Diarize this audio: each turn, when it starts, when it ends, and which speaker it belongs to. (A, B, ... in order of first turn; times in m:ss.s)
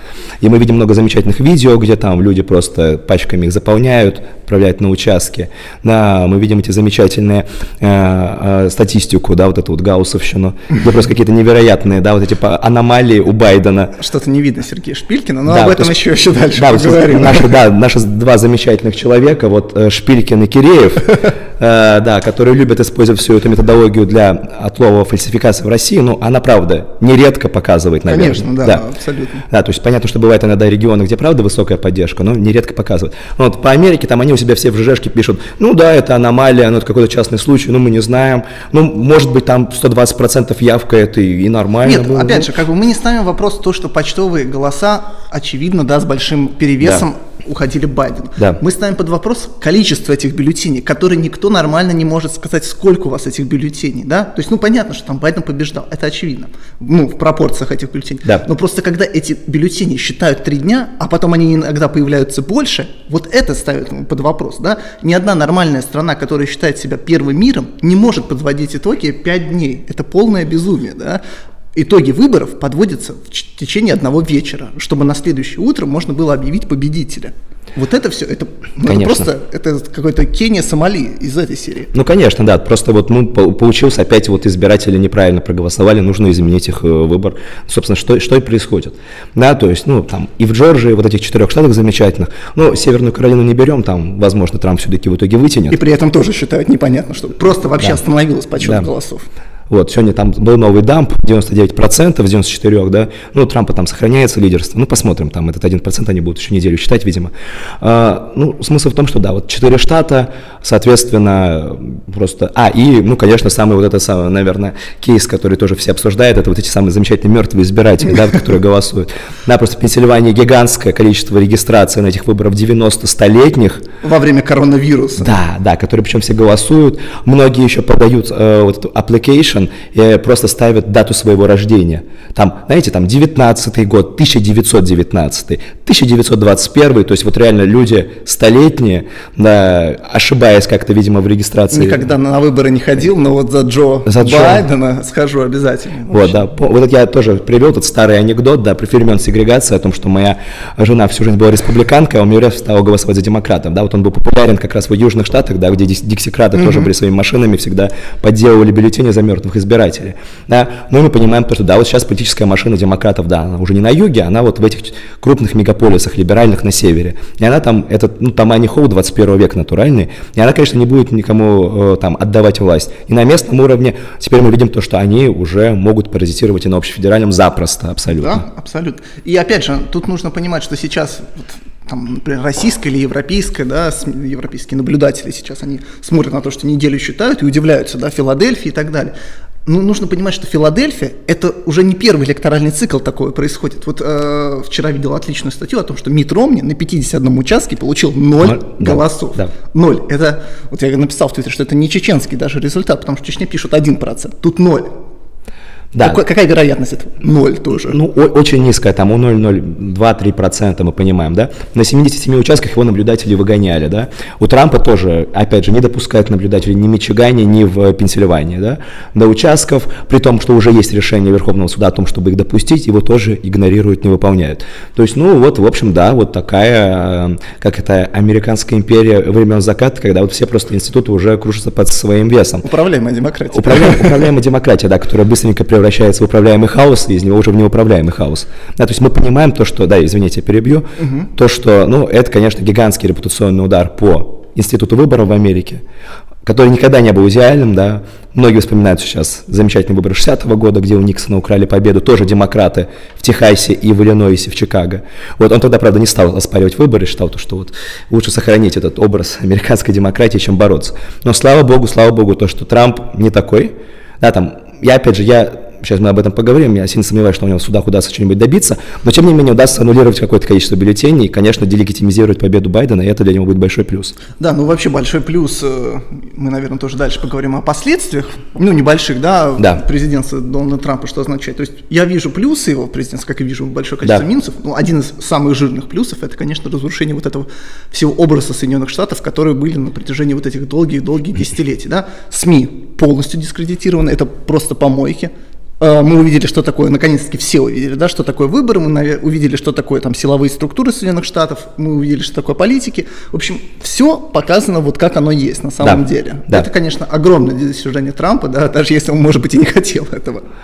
0:00.4-0:14.0 A
0:14.0-0:17.6 B
0:15.4-0:15.9 A
0:16.5-0:28.8 A
0:28.1-0:29.4 B
0:29.5-0:42.5 A
0:41.8-1:11.2 B
1:11.7-1:21.9 B
1:18.8-1:19.3 A
1:21.9-1:35.8 A
1:35.7-1:39.2 B
1:38.6-1:38.9 A
1:39.7-2:03.9 A
2:04.2-2:05.3 B
2:05.2-2:22.0 A
2:21.7-2:22.7 B
2:21.9-2:23.0 C
2:23.3-2:26.4 B
2:24.1-2:24.7 A
2:26.1-2:58.4 A
2:36.6-2:36.9 B
2:58.2-3:09.1 B
3:09.6-3:24.6 B
3:18.4-3:19.5 A
3:25.9-3:26.2 A
3:26.0-3:27.9 B
3:27.8-3:52.7 A
3:53.0-3:54.0 B
3:53.5-4:05.8 A
4:01.0-4:01.2 B
4:06.4-4:34.2 A
4:34.4-4:35.8 C
4:36.4-4:47.4 C
4:37.9-4:38.6 B
4:41.5-4:41.9 B
4:44.2-4:44.8 B
4:47.9-4:55.2 C
4:51.1-4:51.5 B
4:52.1-4:53.0 B
4:56.0-5:10.4 C
5:03.1-5:04.4 B
5:05.8-5:06.6 A